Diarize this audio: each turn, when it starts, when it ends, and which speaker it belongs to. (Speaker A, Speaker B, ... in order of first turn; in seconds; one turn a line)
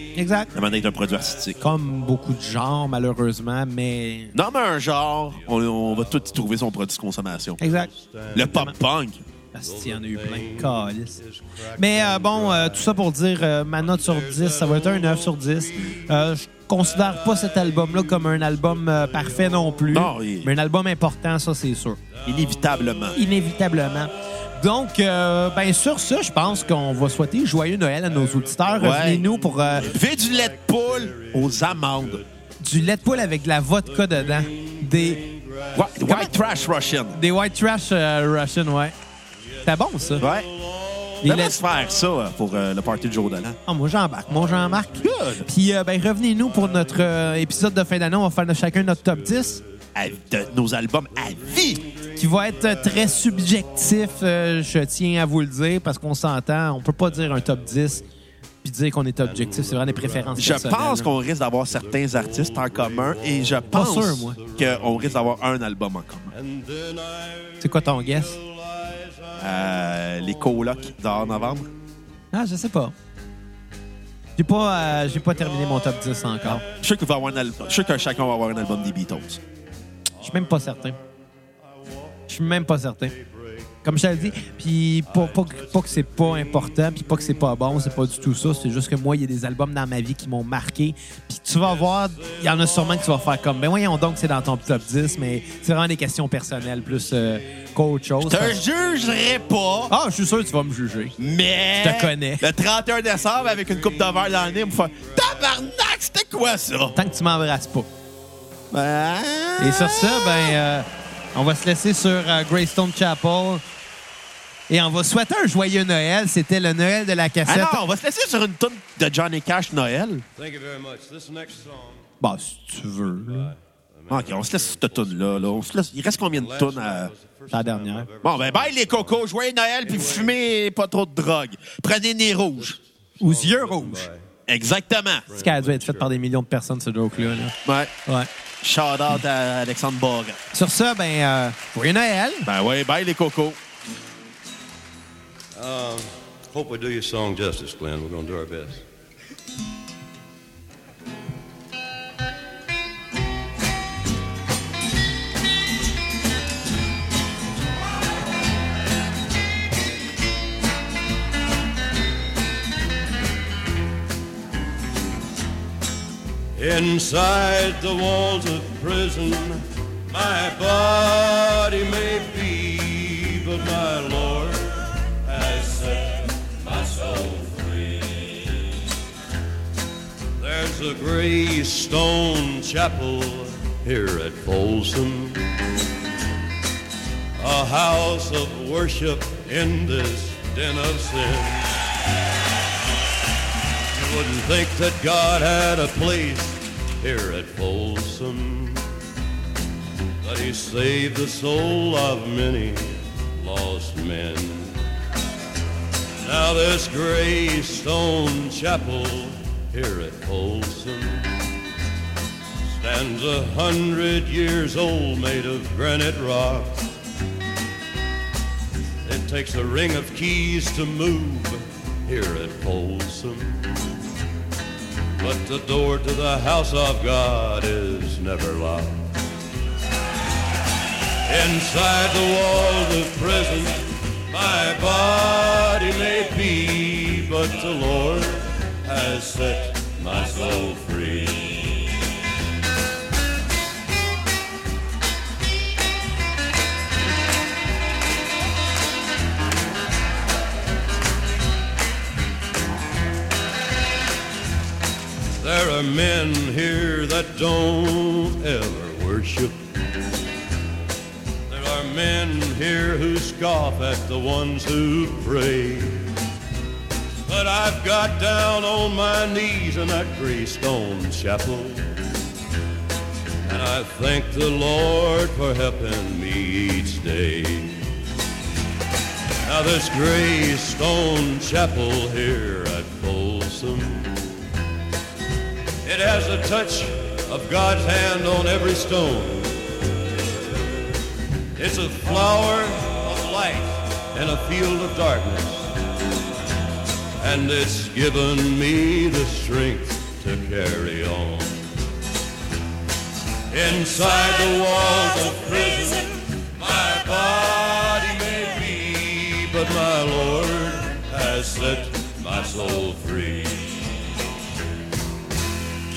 Speaker A: 0.1-0.5
Speaker B: 0.5-1.6
Speaker A: 1.6-4.3
Speaker B: 4.3-7.6
Speaker C: 5.7-6.2
Speaker A: 7.6-7.9
Speaker C: 7.6-8.7
Speaker B: 8.3-9.2
Speaker A: 8.4-8.7
Speaker A: 9.5-11.2
Speaker C: 9.7-13.1
Speaker A: 11.8-22.0
Speaker C: 13.7-15.9
Speaker C: 17.0-19.8
Speaker B: 19.9-20.5
Speaker B: 22.2-23.2
Speaker C: 22.3-23.2
Speaker A: 23.1-29.9
Speaker C: 28.1-32.2
Speaker B: 28.8-29.3
Speaker B: 29.8-32.2
Speaker A: 32.6-35.3
Speaker C: 33.9-36.5
Speaker B: 35.7-37.2
Speaker A: 36.0-36.3
Speaker A: 37.1-38.9
Speaker C: 39.6-41.2
Speaker A: 39.6-40.3
Speaker B: 40.2-40.5
Speaker B: 41.2-43.6
Speaker A: 41.2-41.6
Speaker A: 43.7-49.6
Speaker B: 45.0-45.5
Speaker C: 46.7-47.3
Speaker C: 49.1-49.6
Speaker B: 50.0-51.9
Speaker C: 51.3-52.0
Speaker A: 52.2-58.0
Speaker C: 52.7-53.3
Speaker A: 58.6-61.1
Speaker C: 59.3-61.0
Speaker B: 60.4-66.3
Speaker C: 61.7-65.4
Speaker A: 63.7-64.4
Speaker C: 66.3-71.6
Speaker A: 67.6-68.4
Speaker B: 69.4-71.7
Speaker A: 72.3-73.0
Speaker A: 74.4-76.6
Speaker B: 76.7-79.4
Speaker A: 80.2-81.0
Speaker A: 82.3-83.2
Speaker A: 83.8-98.6
Speaker C: 85.1-86.7
Speaker C: 92.3-93.2
Speaker B: 98.2-99.9
Speaker A: 99.9-101.2
Speaker B: 101.2-107.0
Speaker A: 101.8-102.5
Speaker C: 104.1-105.1
Speaker A: 107.0-107.9
Speaker B: 108.7-110.5
Speaker A: 109.6-113.6
Speaker A: 114.7-117.8
Speaker B: 117.5-120.2
Speaker C: 120.3-122.1
Speaker A: 122.2-123.5
Speaker C: 123.3-125.7
Speaker B: 124.1-127.1
Speaker C: 126.2-129.2
Speaker A: 127.5-128.1
Speaker B: 128.2-132.8
Speaker C: 129.9-130.3
Speaker A: 133.2-134.1
Speaker C: 133.2-134.2
Speaker B: 134.5-135.3
Speaker C: 135.3-136.2
Speaker A: 135.3-137.6
Speaker B: 137.6-137.9
Speaker B: 138.6-140.4
Speaker A: 140.5-142.5
Speaker B: 142.4-143.6
Speaker C: 145.6-148.8
Speaker C: 166.6-178.7
Speaker C: 180.4-185.5
Speaker C: 187.4-191.7
Speaker C: 193.9-198.9
Speaker C: 200.2-204.8
Speaker C: 206.2-211.3
Speaker C: 212.6-216.9
Speaker C: 219.1-223.8
Speaker C: 225.2-229.1
Speaker C: 231.2-241.9
Speaker C: 255.4-259.6
Speaker C: 261.5-266.2
Speaker C: 267.2-272.1
Speaker C: 273.4-277.9
Speaker C: 279.4-284.4
Speaker C: 285.8-289.6
Speaker C: 291.6-295.8
Speaker C: 297.2-301.6
Speaker C: 303.5-313.9